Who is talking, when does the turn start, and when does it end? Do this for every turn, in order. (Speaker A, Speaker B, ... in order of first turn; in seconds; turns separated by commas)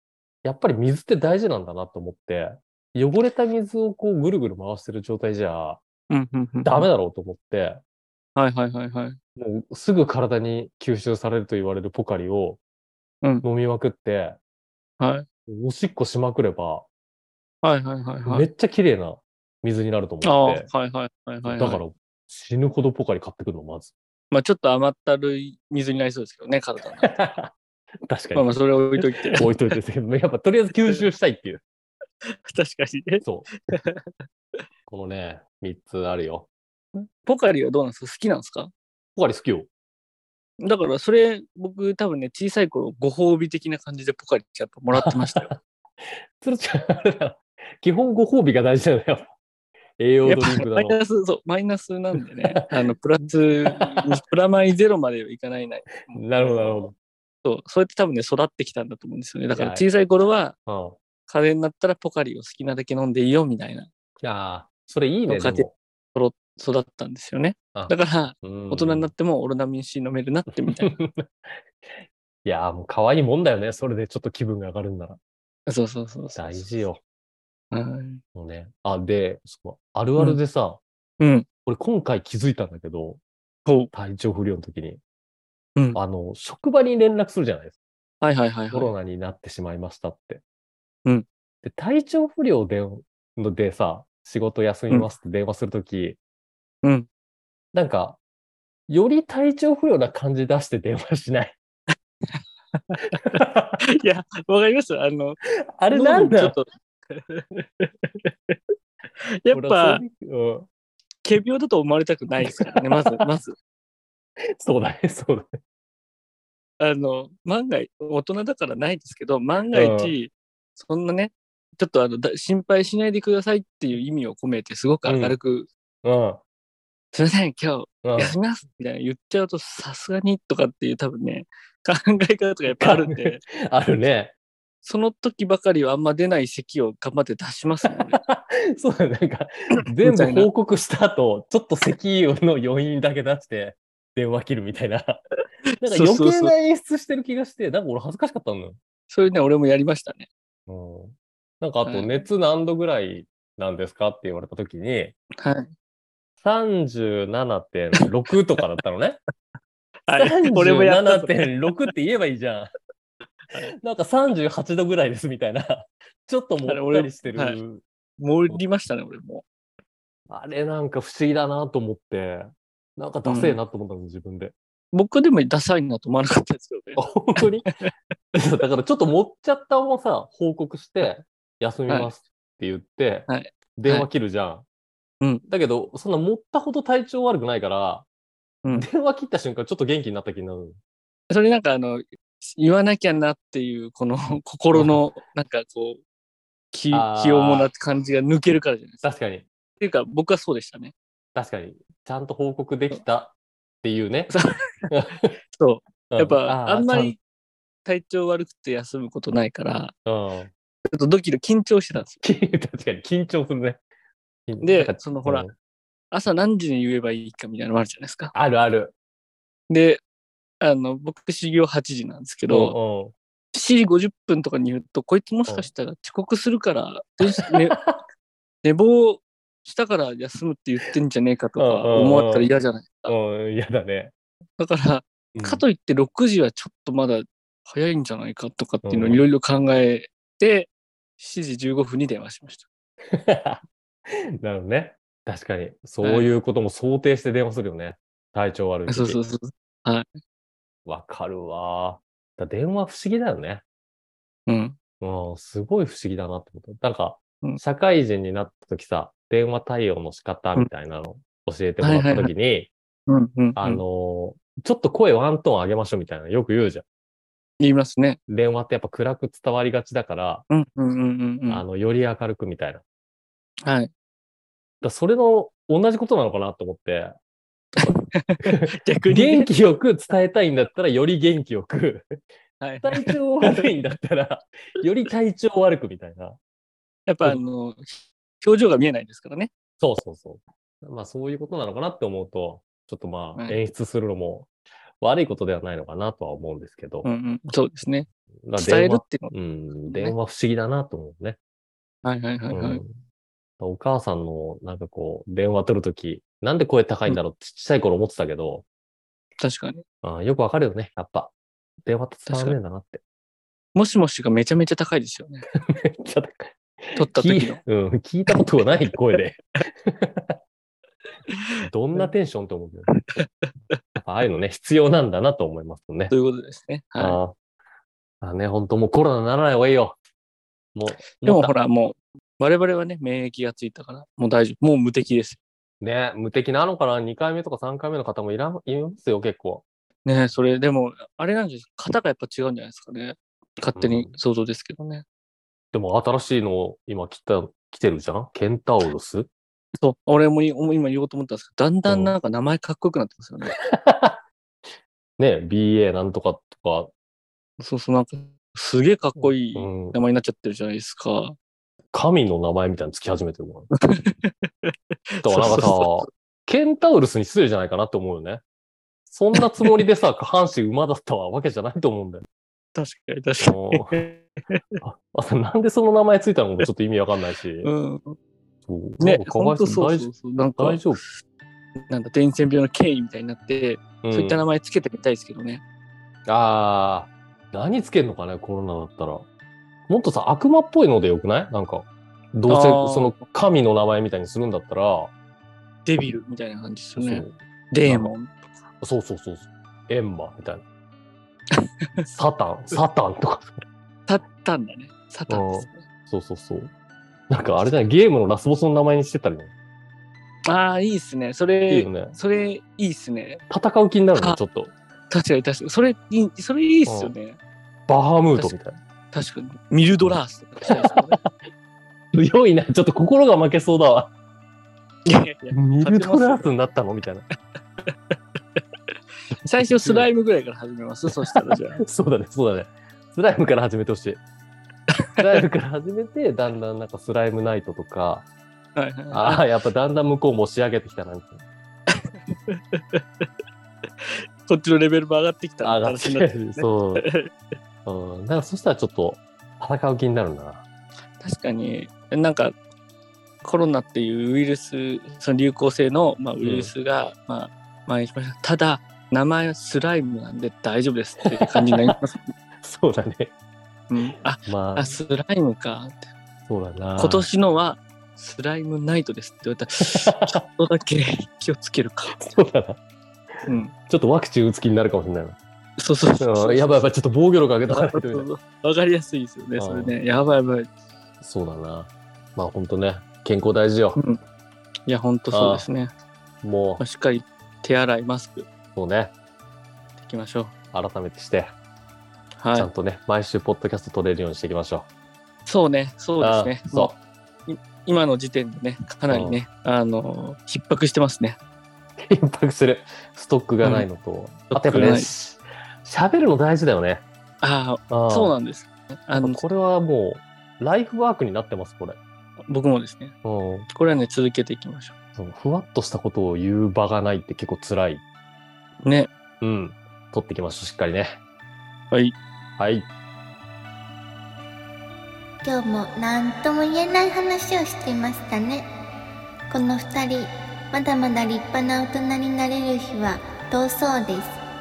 Speaker A: 0.4-5.8, Speaker B: 6.1-6.9, Speaker A: 6.6-7.8, Speaker B: 8.3-9.2, Speaker A: 9.3-12.6, Speaker A: 13.4-14.4, Speaker B: 15.0-15.2, Speaker A: 15.5-16.9, Speaker B: 17.6-18.5, Speaker A: 18.2-20.7, Speaker B: 20.2-21.8, Speaker A: 21.4-23.9, Speaker B: 24.3-27.1, Speaker A: 27.0-27.5, Speaker A: 28.1-31.6, Speaker B: 28.3-29.5, Speaker B: 32.5-34.2, Speaker A: 33.2-33.5, Speaker A: 34.9-36.5, Speaker B: 37.2-38.7, Speaker A: 39.1-39.7, Speaker B: 40.6-45.5, Speaker A: 44.9-45.6, Speaker A: 46.4-49.3, Speaker A: 50.0-51.0, Speaker B: 50.2-56.9, Speaker A: 53.7-54.1, Speaker A: 56.1-56.9, Speaker B: 57.4-60.5, Speaker A: 59.5-59.8, Speaker A: 60.7-61.0, Speaker B: 61.3-63.9, Speaker A: 64.2-65.7, Speaker B: 65.3-71.0, Speaker A: 67.7-69.1, Speaker A: 70.5-75.2, Speaker B: 75.7-76.7, Speaker A: 76.3-77.0, Speaker B: 77.7-78.2, Speaker A: 78.3-80.8, Speaker B: 81.2-81.5, Speaker A: 81.7-83.2, Speaker B: 83.7-83.9, Speaker A: 83.9-85.0, Speaker A: 85.9-87.7, Speaker B: 88.2-88.9, Speaker A: 88.7-90.4, Speaker A: 91.6-96.2, Speaker B: 96.8-97.1, Speaker A: 97.7-98.2, Speaker A: 98.9-101.5, Speaker B: 102.3-105.4, Speaker A: 103.2-103.8, Speaker A: 105.7-106.6, Speaker B: 105.9-108.6, Speaker B: 109.4-110.0, Speaker A: 109.5-110.7, Speaker B: 111.2-113.5, Speaker A: 112.4-113.2, Speaker A: 114.6-115.5, Speaker B: 116.8-125.7, Speaker A: 119.7-120.1, Speaker A: 125.0-125.4, Speaker A: 126.0-126.4, Speaker B: 127.1-133.4, Speaker A: 128.0-128.3, Speaker A: 132.8-134.3, Speaker B: 134.8-138.2, Speaker A: 137.8-145.2, Speaker B: 140.0-140.5, Speaker B: 145.7-146.5, Speaker A: 145.8-148.8, Speaker B: 149.1-150.2, Speaker A: 150.7-155.1, Speaker B: 151.8-152.2, Speaker B: 155.4-155.7, Speaker A: 156.4-159.2, Speaker B: 160.1-161.5, Speaker A: 160.2-162.7, Speaker A: 163.8-167.8, Speaker B: 166.7-167.6, Speaker B: 168.2-169.4, Speaker A: 170.3-174.5, Speaker B: 173.2-173.6, Speaker B: 174.9-177.9, Speaker A: 176.9-177.7, Speaker A: 178.3-184.6, Speaker B: 181.9-182.1, Speaker B: 183.3-184.1, Speaker A: 185.5-188.1, Speaker B: 188.6-188.9, Speaker A: 188.7-190.8, Speaker B: 191.3-196.0, Speaker A: 194.7-195.0, Speaker B: 196.7-199.0, Speaker A: 196.9-197.7, Speaker A: 199.0-199.4, Speaker B: 199.8-200.9, Speaker A: 201.3-204.3, Speaker B: 204.3-204.9, Speaker A: 204.9-205.3, Speaker B: 205.5-207.2, Speaker A: 206.1-207.1, Speaker B: 207.8-209.9, Speaker A: 210.1-210.5, Speaker B: 210.8-212.2, Speaker A: 212.2-213.8, Speaker A: 214.5-215.5, Speaker B: 214.6-215.5, Speaker B: 216.1-218.3, Speaker A: 218.3-218.9, Speaker B: 219.7-220.0, Speaker B: 220.6-222.8, Speaker A: 222.5-223.1, Speaker B: 223.5-227.8, Speaker A: 227.2-227.9, Speaker B: 228.6-233.1, Speaker A: 231.6-232.5, Speaker A: 233.1-234.1, Speaker B: 234.6-242.7, Speaker A: 235.3-235.6, Speaker A: 238.8-239.2, Speaker A: 243.1-249.2, Speaker B: 246.0-246.3, Speaker B: 248.9-250.1, Speaker A: 250.8-253.6, Speaker B: 254.5-254.8, Speaker A: 255.0-262.7, Speaker B: 261.8-262.3, Speaker B: 263.1-263.8, Speaker A: 263.6-266.8, Speaker B: 267.6-268.2, Speaker A: 268.3-270.4, Speaker B: 270.5-271.6, Speaker A: 271.5-272.8, Speaker B: 273.6-273.9, Speaker A: 274.8-277.1, Speaker B: 277.8-279.5, Speaker A: 278.6-282.1, Speaker B: 282.6-283.7, Speaker A: 282.8-286.4, Speaker B: 287.1-289.5, Speaker A: 289.8-294.5, Speaker A: 295.0-297.1, Speaker B: 297.0-299.3, Speaker A: 298.4-301.4, Speaker B: 299.9-300.1, Speaker B: 302.0-302.8, Speaker A: 302.5-303.0, Speaker A: 303.6-308.6, Speaker B: 309.4-309.8, Speaker A: 310.0-311.3, Speaker A: 311.8-313.0, Speaker B: 312.3-312.6, Speaker B: 313.7-315.5, Speaker A: 315.5-320.4, Speaker B: 316.9-317.6, Speaker A: 321.7-322.9, Speaker B: 323.1-323.8, Speaker A: 324.0-326.1, Speaker B: 326.1-327.2, Speaker A: 327.0-327.3, Speaker A: 328.2-330.0, Speaker A: 330.7-331.5, Speaker B: 331.2-335.4, Speaker A: 335.8-339.6, Speaker B: 340.0-345.0, Speaker A: 343.8-344.1, Speaker A: 345.7-349.3, Speaker B: 349.8-353.6, Speaker A: 351.9-352.1, Speaker A: 353.6-354.2, Speaker A: 355.2-356.9, Speaker B: 357.6-361.4, Speaker A: 359.2-360.0, Speaker A: 361.9-363.7, Speaker B: 363.9-366.1, Speaker A: 365.2-368.4, Speaker A: 369.1-372.2, Speaker B: 369.3-369.8, Speaker B: 372.7-374.8, Speaker A: 373.4-374.0, Speaker A: 374.8-377.7, Speaker B: 377.6-378.1, Speaker A: 378.6-381.0, Speaker B: 379.0-380.8, Speaker B: 381.9-385.6, Speaker A: 384.0-384.4, Speaker A: 386.3-389.2, Speaker A: 389.9-395.1, Speaker B: 392.5-393.2, Speaker B: 395.9-398.3, Speaker A: 397.0-397.3, Speaker A: 397.9-398.1, Speaker A: 398.8-400.6, Speaker A: 402.0-403.6, Speaker B: 404.1-405.9, Speaker A: 405.3-406.7, Speaker A: 407.3-409.5, Speaker B: 410.4-413.4, Speaker A: 411.7-412.1, Speaker A: 413.5-414.7, Speaker B: 415.1-417.4, Speaker A: 416.9-417.1, Speaker A: 417.9-418.8, Speaker B: 419.1-421.2, Speaker A: 420.6-421.3, Speaker A: 422.1-424.1, Speaker B: 425.1-426.5, Speaker A: 425.5-427.2, Speaker B: 427.9-428.6, Speaker B: 429.4-431.8, Speaker A: 429.7-430.1, Speaker A: 431.2-434.2, Speaker B: 435.0-435.3, Speaker A: 435.2-438.2, Speaker B: 438.8-439.4, Speaker A: 439.1-441.4, Speaker B: 441.9-443.3, Speaker B: 444.0-447.5, Speaker A: 445.6-447.1, Speaker A: 447.8-450.6, Speaker B: 451.2-452.6, Speaker B: 453.4-462.3, Speaker A: 456.4-456.7, Speaker A: 461.3-461.9, Speaker A: 462.6-463.3, Speaker B: 463.9-466.1, Speaker A: 464.4-465.0, Speaker A: 466.5-467.3, Speaker B: 467.0-472.3, Speaker A: 469.9-470.4, Speaker A: 472.1-472.8, Speaker B: 473.5-473.7, Speaker A: 473.9-475.4, Speaker B: 475.8-476.8, Speaker A: 476.2-478.3, Speaker B: 477.7-480.7, Speaker A: 479.6-479.9, Speaker A: 481.2-484.0, Speaker B: 483.9-484.2, Speaker B: 484.9-485.9, Speaker A: 485.3-485.6, Speaker A: 486.4-486.8, Speaker B: 486.8-488.5, Speaker A: 488.7-489.1, Speaker B: 490.0-490.5, Speaker A: 490.7-491.5, Speaker B: 492.4-492.7, Speaker A: 492.5-494.9, Speaker B: 495.4-501.4, Speaker A: 496.2-496.9, Speaker A: 499.1-499.4, Speaker A: 502.0-507.0, Speaker B: 504.5-505.1, Speaker B: 507.4-509.4, Speaker A: 507.9-508.3, Speaker A: 509.1-512.0, Speaker B: 512.5-513.1, Speaker A: 513.2-513.7, Speaker B: 513.7-514.9, Speaker A: 515.2-518.0, Speaker B: 518.8-519.1, Speaker A: 519.4-521.2, Speaker A: 522.6-522.9, Speaker C: 525.4-528.7, Speaker C: 529.5-534.4